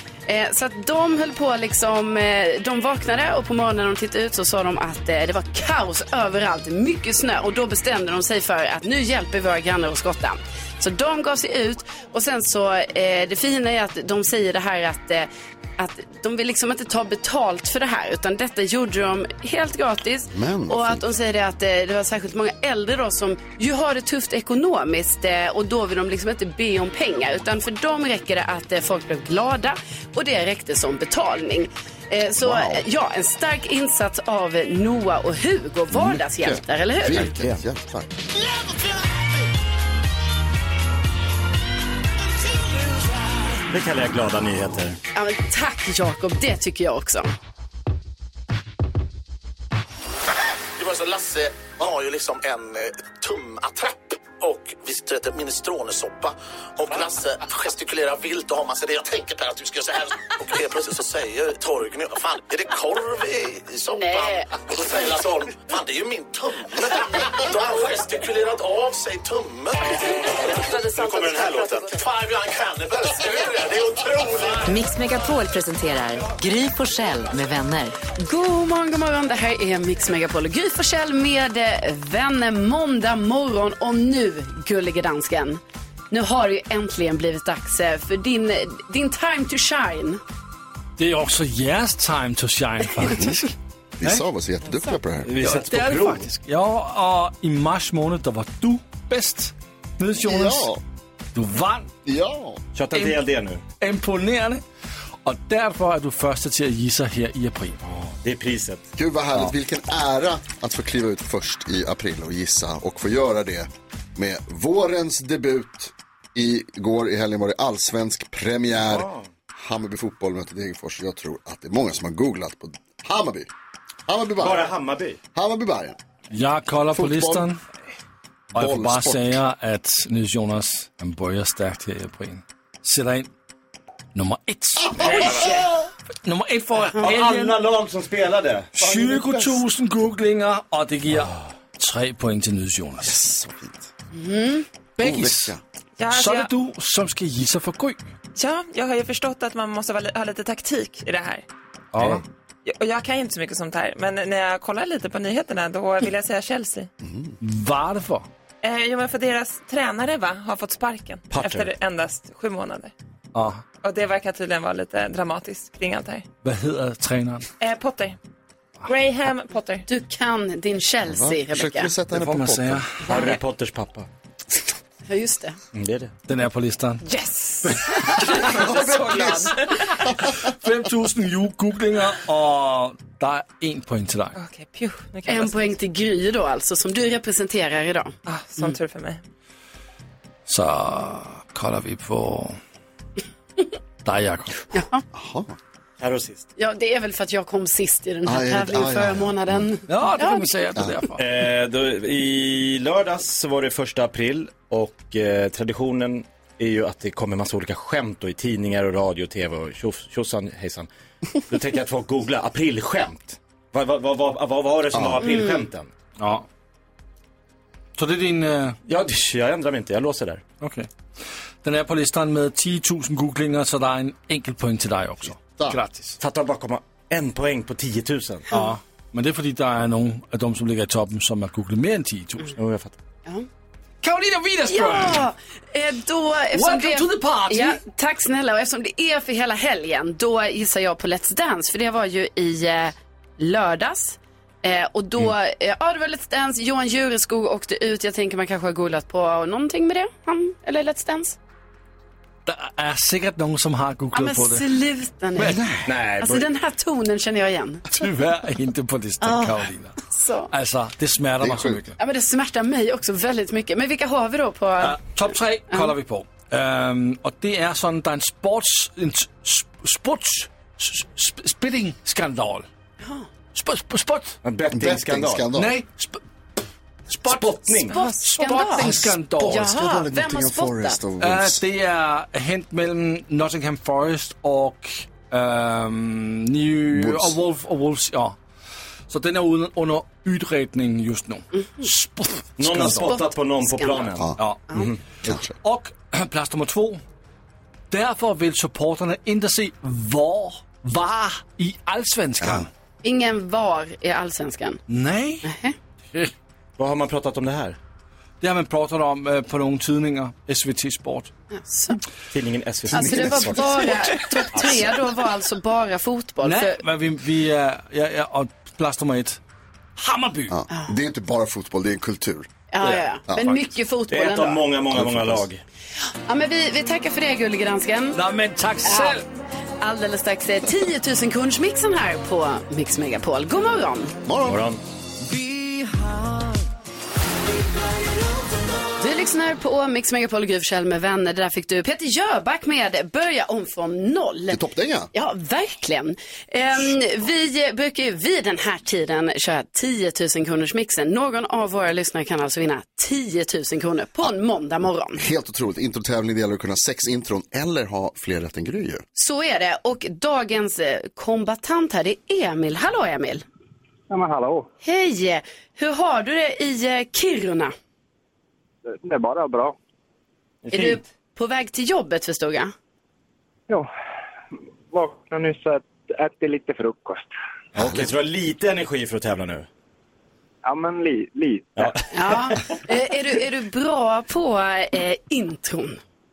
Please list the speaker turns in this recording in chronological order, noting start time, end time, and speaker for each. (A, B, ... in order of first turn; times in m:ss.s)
0:00.3-0:37.3 A
0:20.3-0:21.1 B
0:32.4-0:32.8 B
0:35.9-0:38.1 B
0:37.1-0:37.6 C
0:43.7-0:45.0 C
0:45.1-0:47.3 A
0:50.7-1:14.8 D
1:03.9-1:04.5 A
1:10.2-1:11.9 A
1:14.6-1:17.9 E
1:18.2-1:30.2 A
1:31.0-1:33.5 F
1:33.0-1:33.4 B
1:34.0-1:35.3 B
1:35.2-1:36.3 C
1:35.4-1:40.7 F
1:40.2-1:40.8 B
1:41.4-1:41.9 F
1:42.0-1:42.6 B
1:42.8-1:43.6 C
1:42.9-1:43.2 F
1:43.8-1:44.6 F
1:45.2-1:47.8 F
1:47.8-1:48.8 C
1:49.0-2:03.5 B
1:58.9-1:59.2 C
2:04.1-2:04.7 B
2:04.4-2:05.2 C
2:05.4-2:06.0 B
2:06.3-2:07.6 F
2:06.9-2:07.5 B
2:08.6-2:09.4 B
2:08.6-2:13.3 F
2:14.1-2:15.5 F
2:15.0-2:15.6 B
2:15.0-2:15.6 A
2:16.2-2:17.6 F
2:17.0-2:18.7 C
2:18.8-2:23.2 F
2:18.8-2:19.6 B
2:23.0-2:23.9 B
2:24.1-2:24.6 A
2:25.0-2:25.6 F
2:25.0-2:25.6 B
2:26.0-2:26.5 G
2:26.1-2:28.1 F
2:28.4-2:31.4 G
2:31.9-2:32.2 F
2:32.6-2:36.9 G
2:37.0-2:37.4 B
2:37.4-2:38.2 F
2:38.6-2:42.9 G
2:41.3-2:41.7 C
2:43.3-2:43.6 F
2:43.8-2:46.2 G
2:46.4-2:47.4 F
2:47.6-2:48.2 G
2:48.8-2:49.8 G
2:49.9-2:51.9 A
2:51.1-2:52.8 B
2:52.1-2:53.2 F
2:53.1-2:54.1 C
2:55.1-2:55.6 A
2:55.7-2:56.1 C
2:56.3-2:57.0 F
2:57.0-2:59.8 G
2:57.6-2:58.5 F
2:58.4-3:00.5 B
3:00.4-3:04.4 F
3:04.4-3:05.8 G
3:05.3-3:08.7 A
3:08.2-3:09.2 G
3:10.5-3:12.6 F
3:14.0-3:14.8 F
3:14.7-3:15.0 A
3:15.1-3:15.6 B
3:16.0-3:16.4 C
3:16.6-3:20.5 A
3:18.2-3:19.7 B
3:19.9-3:21.2 F
3:21.2-3:30.9 C
3:31.5-3:35.9 C
3:34.9-3:35.2 B
3:35.2-3:35.6 A
3:36.2-3:36.5 F
3:38.0-3:38.8 F
3:38.9-3:40.4 C
3:40.6-3:40.9 F
3:41.6-3:46.2 F
3:45.4-3:45.8 B
3:46.2-3:48.5 C
3:48.5-3:52.6 F
3:52.6-3:53.0 C
3:54.0-3:55.3 F
3:54.7-4:11.4 A
3:56.5-3:57.8 F
4:12.5-4:14.7 F
4:14.1-4:15.6 A
4:15.4-4:15.9 F
4:15.9-4:16.5 C
4:16.2-4:17.9 A
4:17.9-4:20.0 F
4:19.2-4:19.6 A
4:20.1-4:20.5 A
4:20.5-4:22.0 F
4:21.4-4:21.8 B
4:22.0-4:25.9 A
4:24.8-4:32.6 F
4:33.5-4:34.4 F
4:34.4-4:35.4 C
4:34.7-4:35.7 B
4:35.5-4:36.2 F
4:37.1-4:39.7 F
4:37.3-4:38.0 C
4:37.9-4:41.0 A
4:39.0-4:41.6 B
4:41.2-4:48.4 F
4:46.9-4:47.4 B
4:49.1-4:53.2 F
4:51.6-4:51.9 A
4:52.6-4:55.0 C
4:53.0-4:54.1 A
4:54.4-4:54.7 F
4:55.2-4:55.6 B
4:55.2-4:57.0 F
4:57.9-5:02.7 F
5:02.4-5:02.6 B
5:03.0-5:04.8 A
5:04.9-5:05.5 F
5:05.4-5:05.8 A
5:06.8-5:07.8 C
5:08.4-5:11.3 F
5:11.5-5:12.0 A
5:12.3-5:13.7 C
5:12.9-5:13.6 B
5:12.9-5:16.8 A
5:16.4-5:19.4 F
5:20.0-5:20.5 F
5:20.5-5:22.5 B
5:22.7-5:24.6 A
5:24.1-5:25.6 C
5:24.9-5:25.5 B
5:26.2-5:28.2 A
5:28.1-5:29.2 F
5:28.8-5:29.2 A
5:29.8-5:34.1 A
5:34.2-5:34.6 B
5:34.5-5:34.8 C
5:39.0-5:44.6 A
5:44.5-5:45.1 B
5:45.1-5:55.2 A
5:55.2-5:59.0 B
5:59.2-6:03.4 A
6:04.1-6:04.7 H
6:04.8-6:07.7 A
6:08.9-6:09.8 H
6:10.6-6:11.0 C
6:10.7-6:12.7 A
6:14.9-6:17.3 H
6:17.8-6:19.7 C
6:17.8-6:18.1 B
6:20.6-6:21.9 H
6:22.1-6:26.0 A